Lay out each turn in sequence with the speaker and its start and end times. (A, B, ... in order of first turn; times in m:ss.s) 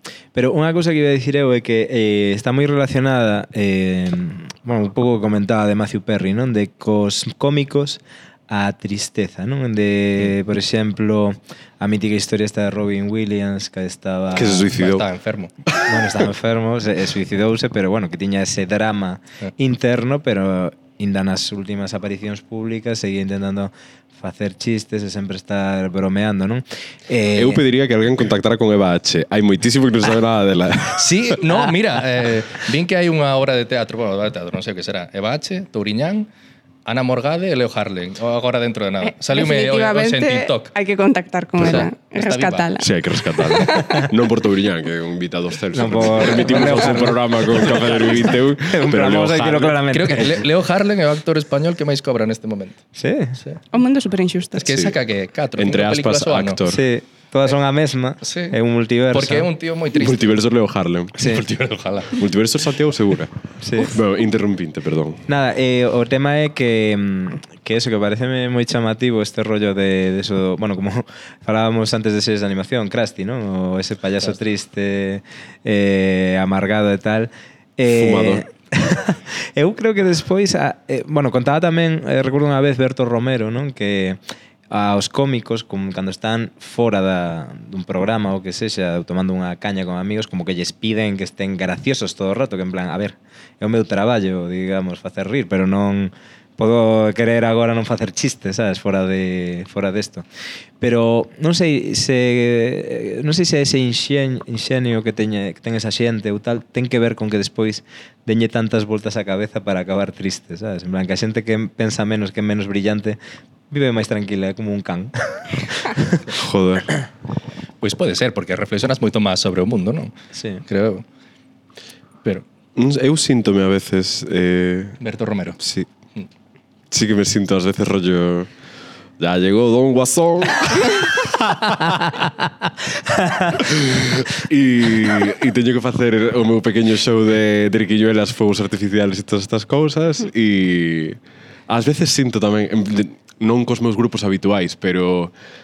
0:00.3-0:14.7 A
0:14.3-0:15.1 B
0:14.7-0:15.5 C
0:15.8-0:27.6 A
0:27.3-0:31.3 B
0:31.0-0:36.3 C
0:36.8-0:40.7 C
0:39.0-0:42.9 D
0:41.6-0:42.7 C
0:42.8-0:49.8 B
0:43.5-0:43.8 D
0:45.7-0:50.5 A
0:46.2-0:48.2 C
0:49.9-0:52.8 C
0:53.0-0:53.4 A
0:53.7-0:54.6 D
0:54.6-0:56.6 C
0:54.7-0:55.0 B
0:55.6-0:56.8 B
0:56.6-0:59.5 A
0:58.2-0:58.6 C
0:59.1-1:00.3 C
0:59.9-1:01.2 B
1:01.2-1:01.4 A
1:01.2-1:02.2 C
1:02.2-1:05.2 B
1:03.6-1:03.9 A
1:05.3-1:24.2 A
1:17.9-1:18.4 B
1:24.7-1:40.3 A
1:40.8-1:53.2 A
1:53.7-1:56.2 A
1:56.3-1:56.9 B
1:57.8-2:00.1 C
2:00.4-2:00.6 A
2:00.7-2:01.0 C
2:02.8-2:05.0 B
2:05.0-2:05.6 C
2:05.6-2:05.9 B
2:06.9-2:08.5 B
2:09.2-2:12.0 B
2:13.2-2:13.5 A
2:13.5-2:25.3 B